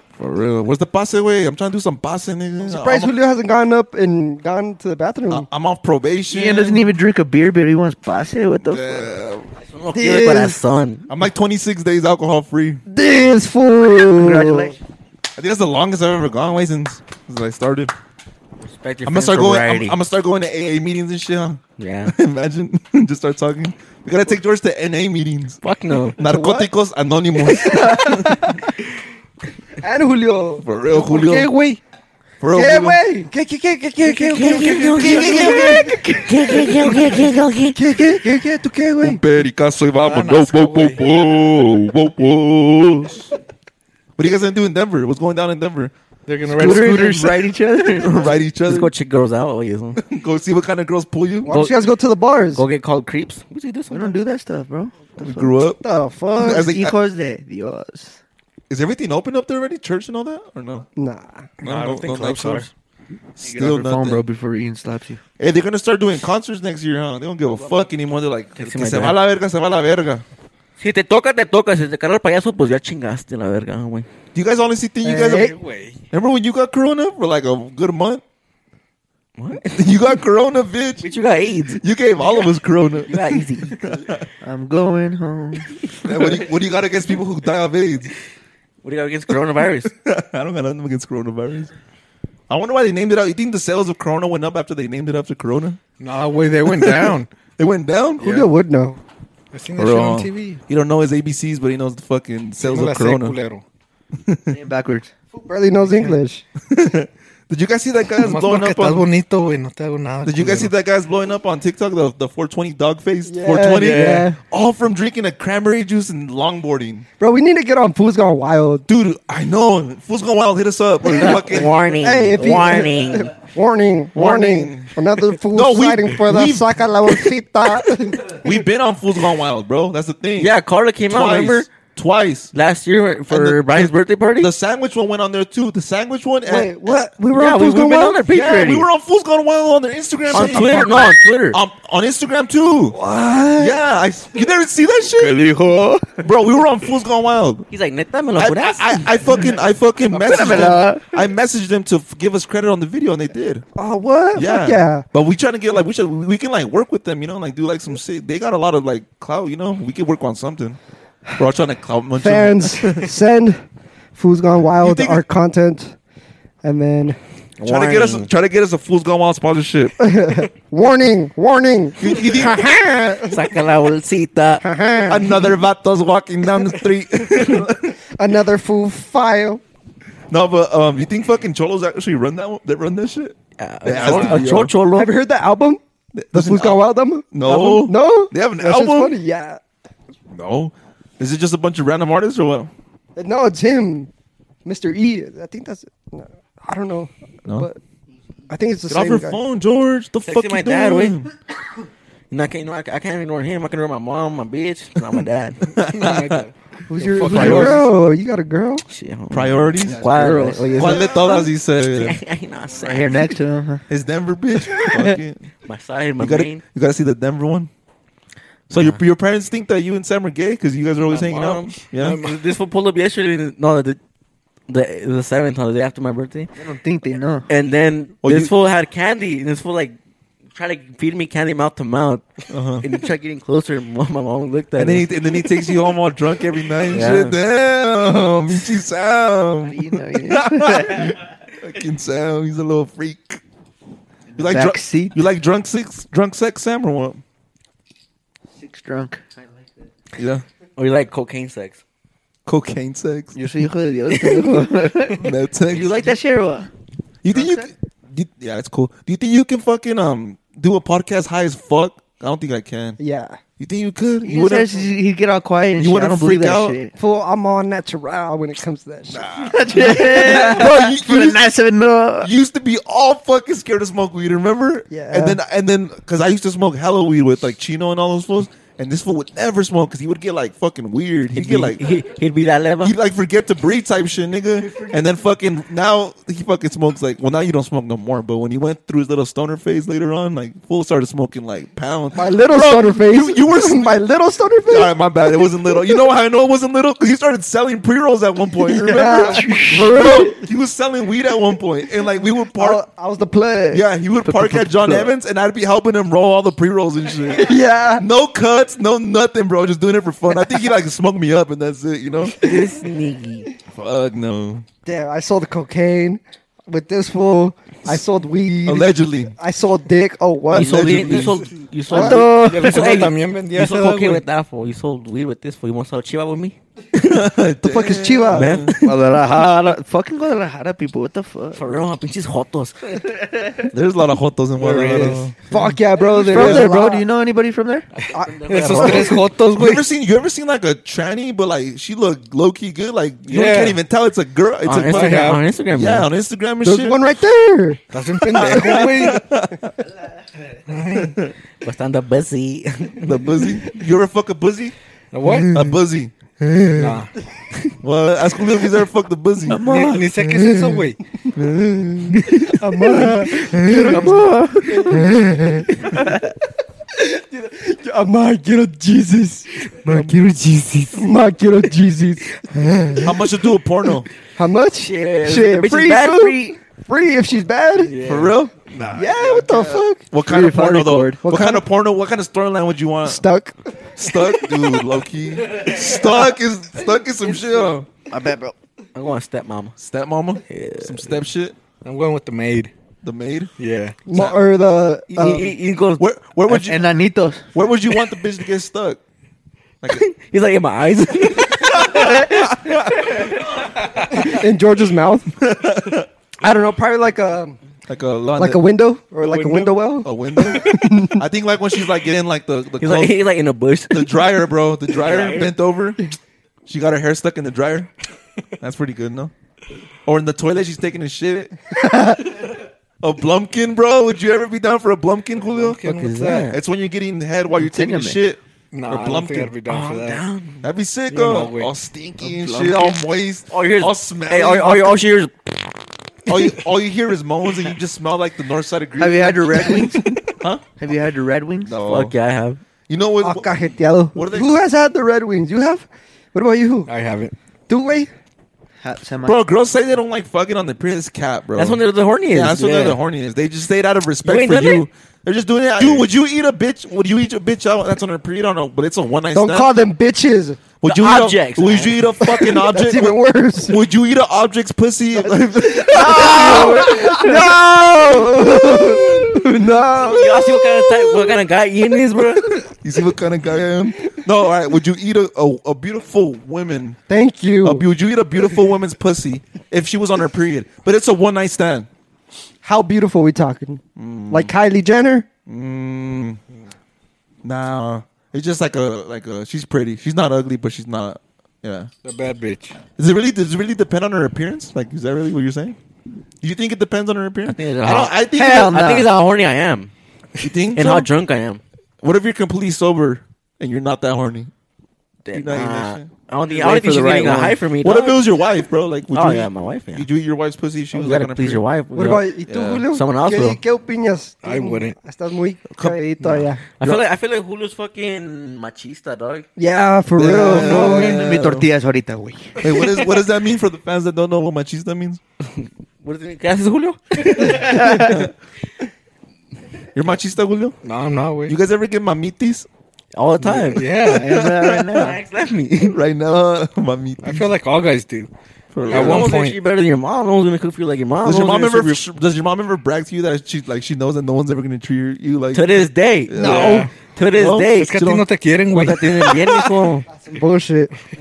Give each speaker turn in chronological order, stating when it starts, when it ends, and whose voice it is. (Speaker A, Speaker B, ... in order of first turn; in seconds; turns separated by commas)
Speaker A: 0.2-3.1, Speaker B: 2.6-5.5, Speaker A: 5.3-6.8, Speaker C: 6.3-9.1, Speaker A: 8.6-9.5, Speaker D: 9.6-11.1, Speaker B: 9.9-10.6, Speaker A: 11.1-12.8, Speaker B: 12.9-14.8, Speaker C: 14.2-14.8, Speaker A: 15.4-17.9, Speaker D: 18.6-20.0, Speaker A: 19.0-25.6, Speaker D: 21.8-22.1, Speaker D: 25.6-26.2, Speaker A: 26.1-28.5, Speaker B: 26.2-26.7, Speaker B: 27.4-28.8, Speaker B: 29.8-31.2, Speaker A: 30.6-31.5, Speaker E: 31.0-31.8, Speaker A: 32.4-33.0, Speaker B: 32.5-37.1, Speaker D: 34.0-37.8, Speaker A: 34.9-36.0, Speaker B: 37.7-39.2, Speaker A: 39.0-43.3, Speaker E: 40.0-41.0, Speaker A: 44.2-45.9, Speaker E: 46.3-47.4, Speaker C: 46.5-48.4, Speaker A: 47.9-48.9, Speaker D: 48.6-50.0, Speaker A: 50.0-51.5, Speaker B: 51.4-52.6, Speaker D: 51.5-51.8, Speaker D: 52.5-54.2, Speaker C: 53.9-55.6, Speaker A: 55.2-55.8, Speaker B: 55.8-56.7, Speaker C: 56.4-58.2, Speaker A: 56.4-56.9, Speaker A: 58.7-60.9, Speaker B: 61.0-61.5, Speaker A: 61.6-62.7, Speaker D: 61.6-62.7, Speaker A: 63.4-64.2, Speaker C: 63.4-65.2, Speaker A: 65.4-70.2, Speaker D: 68.6-69.2, Speaker D: 70.8-74.1, Speaker A: 74.3-75.5, Speaker B: 75.0-75.6, Speaker E: 75.4-76.0, Speaker A: 76.1-78.2, Speaker D: 79.4-80.0, Speaker A: 79.6-81.1, Speaker D: 81.0-81.8, Speaker A: 81.7-84.3, Speaker D: 83.0-84.0, Speaker C: 84.4-85.8, Speaker A: 86.0-88.1, Speaker D: 88.8-89.9, Speaker A: 89.8-91.7, Speaker A: 92.5-95.8, Speaker E: 96.0-97.3, Speaker A: 96.7-98.5, Speaker B: 98.2-99.0, Speaker E: 99.5-100.6, Speaker A: 99.8-103.4, Speaker E: 102.6-103.6, Speaker A: 104.2-104.6, Speaker C: 104.5-105.1, Speaker B: 105.3-106.4, Speaker A: 106.6-109.1, Speaker E: 108.2-110.7, Speaker A: 110.2-117.1, Speaker B: 113.2-114.4, Speaker E: 113.7-114.3, Speaker B: 117.2-118.8, Speaker A: 118.9-121.7, Speaker D: 121.0-123.3, Speaker B: 122.0-128.4, Speaker A: 124.1-124.9, Speaker A: 125.5-126.8, Speaker A: 128.2-130.5, Speaker D: 130.4-131.7, Speaker A: 131.1-132.5, Speaker D: 132.5-134.5, Speaker A: 133.3-136.7, Speaker B: 136.4-138.2, Speaker D: 137.3-138.9, Speaker A: 138.3-143.0, Speaker D: 140.3-141.6, Speaker B: 142.9-143.8, Speaker A: 143.6-145.4, Speaker C: 145.2-146.2, Speaker A: 146.2-147.7, Speaker D: 147.7-149.1, Speaker A: 148.4-153.6, Speaker E: 150.1-150.8, Speaker C: 150.2-151.1, Speaker B: 153.7-155.1, Speaker A: 154.3-160.8, Speaker A: 161.4-163.1, Speaker B: 162.2-163.6, Speaker B: 164.1-165.9, Speaker A: 164.8-165.2, Speaker B: 166.6-167.2, Speaker D: 167.6-168.3, Speaker A: 167.6-170.0, Speaker B: 170.0-173.4, Speaker A: 172.0-172.7, Speaker D: 173.2-174.7, Speaker B: 174.6-175.6, Speaker A: 175.1-178.0, Speaker B: 178.1-179.6, Speaker A: 180.3-184.7, Speaker D: 183.6-185.1, Speaker E: 183.9-184.5, Speaker B: 184.9-185.8, Speaker A: 186.1-189.1, Speaker B: 186.3-189.6, Speaker A: 190.3-192.7, Speaker B: 193.2-194.1, Speaker B: 194.6-197.8, Speaker B: 198.5-199.4, Speaker A: 198.9-201.3, Speaker D: 200.2-201.2, Speaker D: 202.3-205.7, Speaker A: 205.7-206.4, Speaker E: 205.7-207.8, Speaker B: 206.9-208.8, Speaker A: 207.2-207.9, Speaker D: 208.9-213.3, Speaker A: 209.3-210.1, Speaker C: 209.9-211.1, Speaker A: 210.7-212.2, Speaker C: 212.8-213.8, Speaker A: 213.9-215.5, Speaker B: 214.7-215.2, Speaker D: 215.6-216.6, Speaker A: 216.2-217.7, Speaker A: 218.7-222.2, Speaker D: 218.7-219.0, Speaker D: 221.1-224.0, Speaker E: 221.2-222.4, Speaker D: 224.7-226.5, Speaker C: 226.6-227.5, Speaker D: 227.5-229.9, Speaker A: 228.2-228.5, Speaker D: 230.5-235.1, Speaker A: 232.5-232.9, Speaker A: 234.8-243.4, Speaker D: 236.9-237.4, Speaker C: 239.7-241.1, Speaker C: 244.3-245.2, Speaker A: 244.4-247.2, Speaker C: 248.5-249.6, Speaker A: 250.2-250.4, Speaker D: 250.8-251.8, Speaker A: 252.4-253.4, Speaker C: 253.3-256.7, Speaker D: 254.1-254.6, Speaker A: 255.1-256.1, Speaker A: 257.2-263.0, Speaker C: 257.3-257.7, Speaker B: 263.0-263.4, Speaker A: 263.6-264.9, Speaker C: 264.2-266.9, Speaker A: 265.8-266.8, Speaker B: 266.9-269.3, Speaker A: 269.1-271.5, Speaker C: 269.4-272.3, Speaker A: 272.2-281.8, Speaker B: 274.9-275.4, Speaker D: 281.4-282.9, Speaker A: 282.8-293.9, Speaker B: 292.1-295.9, Speaker A: 294.7-302.8, Speaker B: 298.6-300.4, Speaker B: 302.5-303.9, Speaker A: 303.7-312.5, Speaker C: 304.2-305.1, Speaker B: 307.3-308.0, Speaker D: 312.4-313.5, Speaker A: 313.7-314.6, Speaker B: 314.9-321.1, Speaker A: 318.6-319.4, Speaker A: 320.5-321.4, Speaker D: 320.5-326.6, Speaker E: 321.0-321.3, Speaker B: 321.9-322.8, Speaker C: 321.9-322.3, Speaker E: 322.3-324.2, Speaker A: 326.9-328.8, Speaker B: 327.6-328.6, Speaker D: 328.3-328.8, Speaker C: 328.7-331.7, Speaker D: 331.5-333.1, Speaker A: 333.7-335.4, Speaker E: 334.6-335.4, Speaker B: 335.5-337.1, Speaker C: 336.1-337.9, Speaker A: 336.4-336.7, Speaker D: 338.0-339.2, Speaker B: 338.1-339.2, Speaker E: 338.4-339.9, Speaker A: 339.5-347.1, Speaker E: 343.2-343.8, Speaker D: 344.6-346.1, Speaker E: 344.9-345.4, Speaker B: 346.6-349.1, Speaker E: 347.9-349.2, Speaker A: 348.3-349.8, Speaker E: 350.7-351.2, Speaker A: 350.9-351.3, Speaker D: 351.6-353.2, Speaker A: 353.0-354.7, Speaker E: 355.1-355.7, Speaker A: 355.4-357.1, Speaker E: 356.7-357.1, Speaker A: 357.8-362.6, Speaker C: 359.5-360.1, Speaker E: 359.6-361.0, Speaker B: 362.5-366.2, Speaker C: 363.4-365.1, Speaker B: 366.9-373.4, Speaker A: 369.9-370.1, Speaker A: 373.0-374.1, Speaker B: 374.4-377.9, Speaker D: 374.8-376.6, Speaker D: 377.8-378.4, Speaker A: 378.0-379.1, Speaker E: 378.8-379.0, Speaker B: 378.9-380.0, Speaker A: 380.1-383.2, Speaker C: 380.2-381.2, Speaker B: 381.2-381.6, Speaker B: 383.0-384.3, Speaker A: 383.9-387.9, Speaker C: 388.1-388.5, Speaker D: 388.9-389.8, Speaker A: 389.8-391.6, Speaker D: 390.5-391.2, Speaker E: 391.8-392.7, Speaker A: 393.0-393.5, Speaker E: 393.6-394.0, Speaker B: 394.1-395.5, Speaker A: 394.1-394.4, Speaker D: 395.1-396.0, Speaker A: 396.0-396.9, Speaker C: 396.5-397.5, Speaker A: 397.5-399.0, Speaker D: 399.9-403.4, Speaker A: 401.4-403.4, Speaker B: 404.1-405.3, Speaker A: 405.4-406.1, Speaker B: 406.4-407.6, Speaker A: 407.9-408.6, Speaker B: 408.4-411.2, Speaker A: 410.0-413.2, Speaker D: 412.8-414.2, Speaker A: 413.9-416.0, Speaker D: 414.9-415.5, Speaker A: 416.7-417.9, Speaker A: 418.6-419.3, Speaker A: 420.0-421.5, Speaker A: 423.0-429.5, Speaker E: 425.4-426.5, Speaker D: 425.9-426.6, Speaker C: 427.6-428.2, Speaker E: 428.7-430.2, Speaker D: 429.6-430.6, Speaker A: 430.6-435.0, Speaker E: 431.1-431.7, Speaker C: 432.2-433.0, Speaker D: 433.5-435.7, Speaker A: 436.2-440.6, Speaker C: 439.0-440.2, Speaker C: 440.8-441.8, Speaker A: 441.6-442.1, Speaker D: 441.9-442.6, Speaker A: 442.9-443.6, Speaker B: 443.2-446.9, Speaker A: 444.1-444.6, Speaker E: 446.9-447.3, Speaker B: 447.7-448.1, Speaker C: 448.8-449.4, Speaker A: 449.2-459.8, Speaker D: 451.6-453.0, Speaker D: 454.2-454.9, Speaker D: 455.8-456.1, Speaker B: 459.3-460.6, Speaker A: 460.8-467.6, Speaker D: 460.8-462.2, Speaker B: 462.4-463.8, Speaker B: 465.1-471.4, Speaker A: 468.1-469.2, Speaker D: 469.9-472.6, Speaker A: 472.6-477.0, Speaker B: 477.1-477.9, Speaker A: 477.6-481.9, Speaker B: 482.6-485.3, Speaker A: 483.9-484.5, Speaker A: 485.5-486.4, Speaker A: 487.4-491.9, Speaker E: 492.0-492.8, Speaker A: 492.9-495.8, Speaker A: 496.4-498.8, Speaker D: 497.4-499.9, Speaker C: 498.2-499.1, Speaker A: 500.4-501.1, Speaker D: 500.7-501.6, Speaker A: 502.0-504.5, Speaker D: 505.2-508.3, Speaker A: 505.3-506.1, Speaker E: 506.5-507.3, Speaker C: 506.8-507.6, Speaker A: 507.8-511.6, Speaker D: 509.1-510.1, Speaker D: 510.9-512.3, Speaker B: 511.9-516.6, Speaker A: 512.5-512.8, Speaker D: 512.9-513.6, Speaker E: 514.4-515.0, Speaker A: 515.7-516.0, Speaker D: 516.8-519.5, Speaker B: 519.6-521.3, Speaker A: 520.2-521.6, Speaker C: 520.4-522.6, Speaker A: 522.6-525.2, Speaker D: 525.6-528.2, Speaker A: 527.2-528.3, Speaker A: 529.9-530.8, Speaker E: 530.8-531.6, Speaker A: 531.5-532.7, Speaker D: 533.1-533.9, Speaker A: 533.5-535.1, Speaker E: 533.6-534.3, Speaker C: 534.0-535.2, Speaker D: 534.9-536.0, Speaker A: 535.8-537.5, Speaker E: 537.2-538.3, Speaker A: 538.7-539.4, Speaker D: 538.9-542.1, Speaker E: 538.9-539.6, Speaker A: 541.2-548.2, Speaker D: 545.5-548.1, Speaker E: 546.4-546.9, Speaker B: 546.5-546.8, Speaker E: 547.7-549.4, Speaker D: 548.7-550.1, Speaker B: 550.2-551.0